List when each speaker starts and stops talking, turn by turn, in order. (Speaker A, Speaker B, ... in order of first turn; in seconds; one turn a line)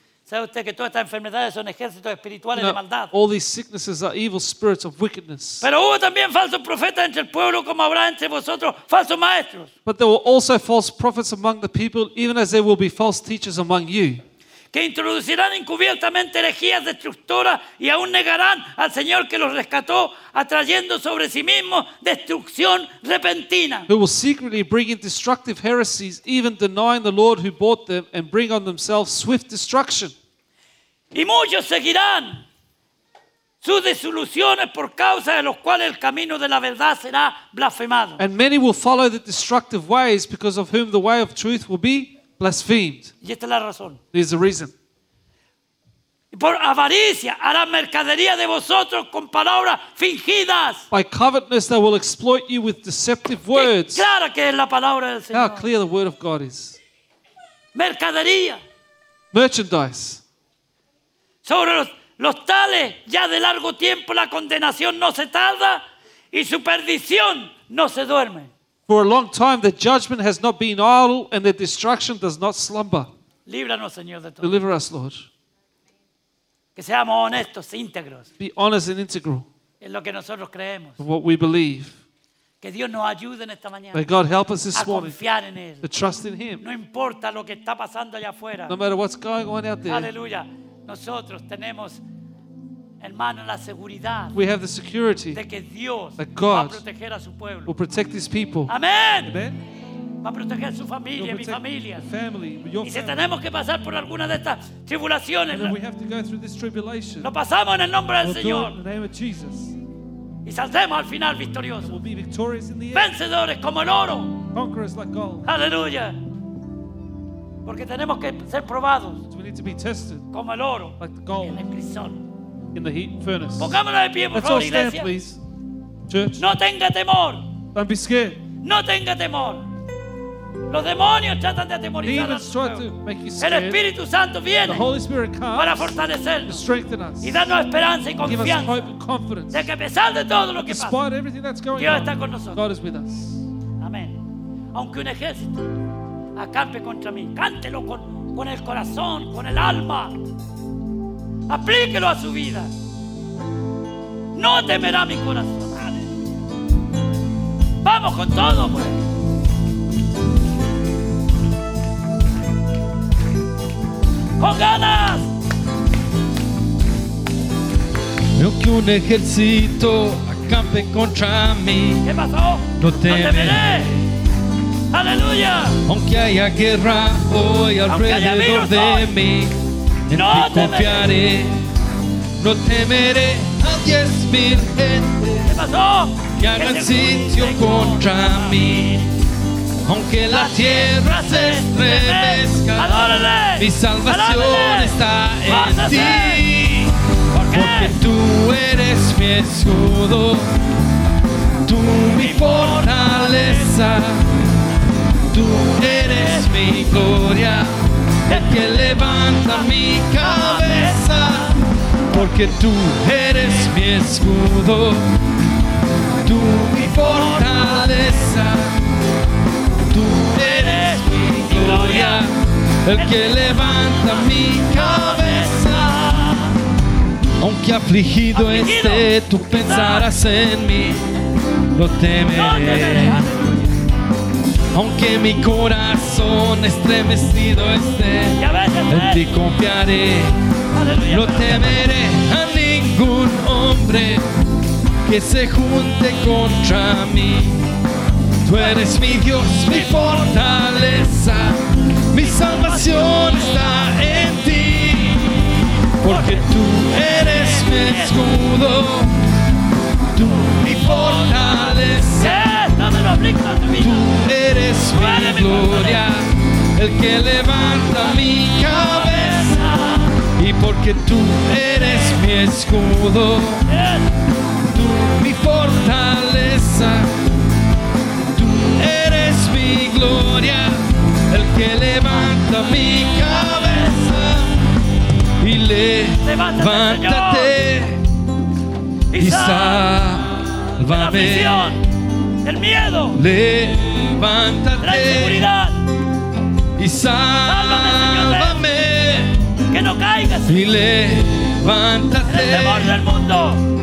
Speaker A: 0.3-3.1
Speaker B: 2.5-5.7
Speaker A: 5.6-9.7
Speaker B: 9.8-14.2
Speaker A: 14.7-23.9
Speaker B: 23.9-30.1
Speaker A: 31.1-32.4
Speaker A: 33.6-38.2
Speaker B: 38.2-43.1
Speaker A: 43.2-44.0
Speaker B: 44.1-44.7
Speaker A: 46.3-50.9
Speaker B: 50.9-54.0
Speaker A: 53.5-55.7
Speaker B: 55.3-56.8
Speaker A: 57.7-58.6
Speaker B: 59.3-60.2
Speaker A: 61.4-68.5
Speaker B: 68.9-73.1
Speaker A: 73.5-74.6
Speaker B: 74.4-75.3
Speaker A: 76.8-78.3
Speaker B: 78.4-79.5
Speaker A: 79.8-81.0
Speaker B: 81.0-82.0
Speaker A: 82.6-84.0
Speaker B: 83.9-85.2
Speaker A: 84.7-85.8
Speaker B: 85.8-86.6
Speaker A: 86.6-88.8
Speaker B: 88.7-90.1
Speaker A: 89.9-92.0
Speaker A: 93.0-94.3
Speaker B: 94.3-95.4
Speaker A: 95.3-97.7
Speaker B: 96.2-96.8
Speaker B: 97.7-98.7
Speaker A: 98.7-99.3
Speaker B: 99.2-99.6
Speaker A: 100.2-102.0
Speaker B: 101.2-103.2
Speaker A: 102.8-105.8
Speaker B: 105.5-107.3
Speaker A: 107.2-108.8
Speaker B: 108.2-109.7
Speaker A: 110.4-112.0
Speaker B: 111.8-113.1
Speaker A: 112.9-114.4
Speaker B: 114.5-115.5
Speaker A: 115.4-116.2
Speaker A: 117.6-119.2
Speaker B: 119.3-120.3
Speaker A: 120.3-122.2
Speaker B: 121.0-121.6
Speaker B: 122.7-123.8
Speaker A: 123.6-125.1
Speaker B: 124.3-125.4
Speaker B: 126.1-126.5
Speaker A: 126.4-127.5
Speaker B: 127.7-128.4
Speaker A: 128.6-129.7
Speaker A: 130.7-132.9
Speaker B: 132.0-133.8
Speaker A: 133.4-134.9
Speaker B: 134.7-137.4
Speaker A: 135.5-136.6
Speaker A: 137.2-138.9
Speaker B: 138.2-139.7
Speaker A: 139.5-141.0
Speaker B: 140.6-143.4
Speaker A: 141.7-142.6
Speaker A: 143.8-144.2
Speaker A: 144.7-145.6
Speaker A: 146.3-150.3
Speaker A: 151.5-152.7
Speaker A: 154.3-156.3
Speaker A: 157.8-159.0
Speaker A: 164.4-165.3
Speaker C: 168.3-172.1
Speaker A: 172.0-173.9
Speaker C: 172.8-174.0
Speaker A: 174.9-175.8
Speaker C: 175.8-179.6
Speaker A: 177.8-179.1
Speaker C: 180.1-181.6
Speaker A: 180.1-181.1
Speaker C: 182.4-185.5
Speaker A: 185.4-189.0
Speaker C: 186.4-189.1
Speaker C: 189.8-196.9
Speaker A: 190.3-196.5
Speaker A: 197.3-198.0
Speaker C: 197.5-200.5
Speaker C: 201.6-204.2
Speaker A: 202.1-203.9
Speaker C: 205.3-207.7
Speaker A: 205.8-206.5
Speaker C: 208.3-211.5
Speaker A: 208.3-211.6
Speaker C: 212.1-215.1
Speaker A: 213.4-213.7
Speaker C: 216.2-218.8
Speaker A: 216.9-218.3
Speaker C: 219.9-222.3
Speaker A: 220.3-222.2
Speaker C: 222.8-226.0
Speaker A: 222.9-226.6
Speaker C: 227.4-231.0
Speaker A: 228.3-230.1
Speaker C: 231.7-233.3
Speaker A: 232.3-233.8
Speaker C: 234.7-240.3
Speaker A: 238.3-239.3
Speaker A: 240.7-241.9
Speaker C: 241.1-244.2
Speaker C: 245.0-247.6
Speaker C: 248.4-255.5
Speaker A: 248.5-250.6
Speaker A: 252.2-254.3
Speaker C: 256.0-259.2
Speaker A: 256.0-258.4
Speaker C: 260.1-262.5
Speaker A: 260.8-264.1
Speaker C: 263.8-269.6
Speaker A: 264.9-266.1
Speaker A: 268.1-270.2
Speaker C: 270.4-273.6
Speaker A: 273.6-274.1
Speaker C: 274.7-277.1
Speaker C: 278.3-284.6
Speaker A: 283.5-283.9
Speaker C: 285.4-288.0
Speaker A: 286.2-287.6
Speaker A: 289.1-289.9
Speaker C: 289.1-291.8
Speaker A: 290.8-291.8
Speaker A: 292.4-293.2
Speaker C: 293.1-295.5
Speaker A: 294.8-295.8
Speaker C: 296.8-299.4
Speaker A: 297.4-298.6
Speaker A: 299.7-300.8
Speaker C: 300.5-303.0
Speaker A: 302.3-303.6